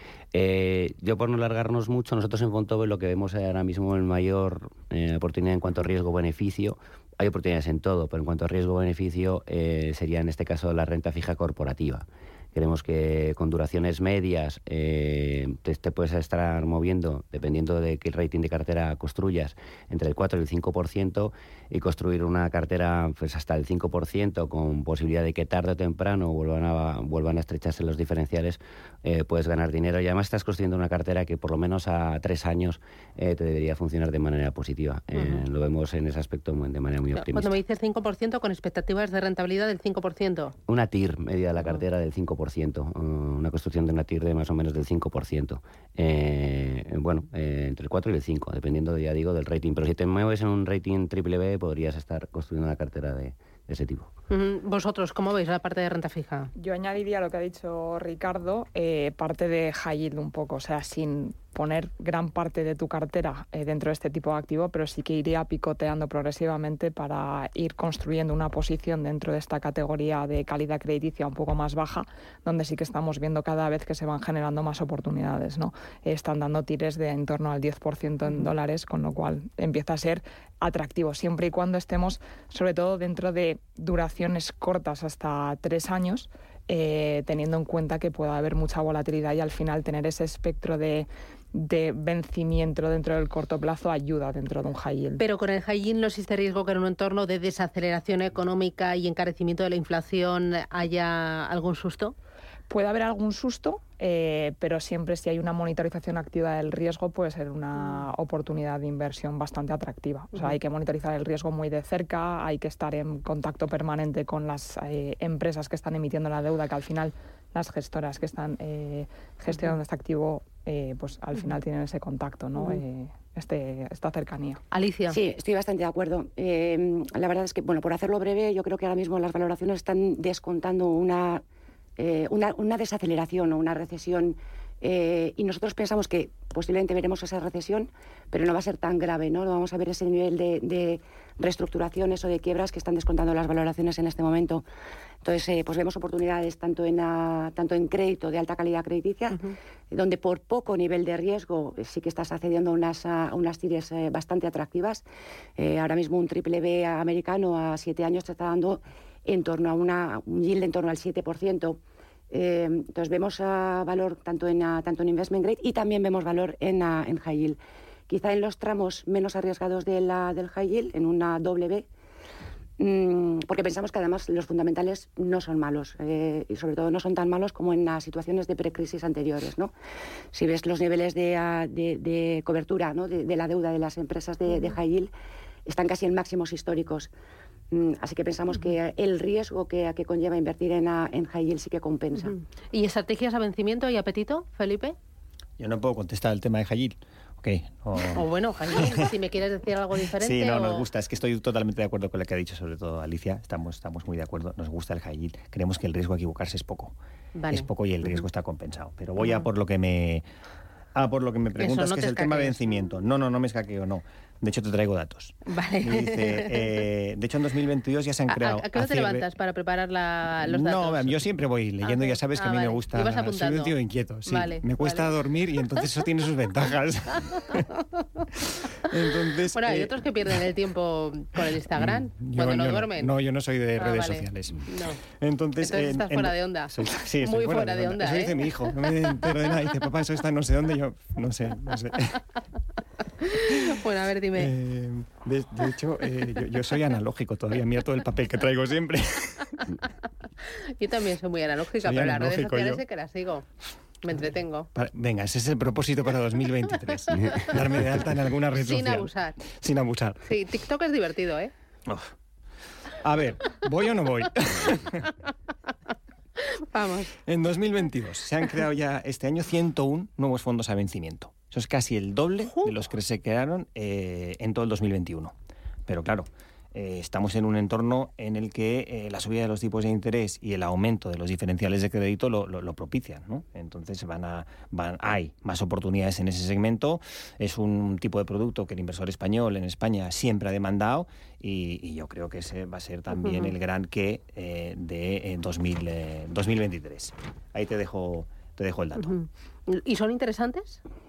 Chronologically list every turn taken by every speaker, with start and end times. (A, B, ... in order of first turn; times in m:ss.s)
0:00.3-0:37.6 A
0:35.1-0:35.4 B
0:37.1-0:40.6 B
0:40.7-0:54.1 A
0:54.3-0:56.5 B
0:56.6-1:35.2 C
1:35.2-1:42.2 B
1:42.7-2:04.6 C
2:04.7-2:05.2 B
2:05.1-2:11.4 D
2:12.0-2:24.6 D
2:25.2-2:35.0 D
2:35.6-2:41.8 D
2:42.3-2:47.6 D
2:48.1-2:51.9 D
2:52.8-2:59.7 D
3:00.3-3:05.1 D
3:05.7-3:07.1 D
3:07.7-3:12.4 D
3:12.3-3:15.0 B
3:15.6-3:19.1 E
3:18.1-3:20.9 B
3:20.1-3:27.0 E
3:27.4-3:28.2 B
3:27.5-3:30.2 E
3:31.0-3:39.3 E
3:31.6-3:32.6 B
3:35.5-3:36.8 B
3:38.3-3:41.2 B
3:40.4-3:47.7 E
3:41.8-3:43.8 B
3:44.3-3:45.1 B
3:47.2-3:48.2 B
3:48.8-3:50.5 E
3:49.5-3:53.1 B
3:51.4-4:02.2 E
3:53.8-3:55.0 B
3:55.6-3:59.3 B
4:03.2-4:04.5 B
4:03.5-4:03.8 E
4:04.4-4:09.7 E
4:10.8-4:13.4 B
4:11.8-4:12.8 E
4:14.0-4:14.7 B
4:14.7-4:20.2 E
4:18.5-4:19.4 B
4:20.2-4:21.5 B
4:21.9-4:22.1 E
4:23.0-4:25.1 E
4:26.4-4:27.1 B
4:27.2-4:35.3 E
4:35.9-4:59.2 E
4:53.2-4:53.5 B
4:59.0-5:00.8 B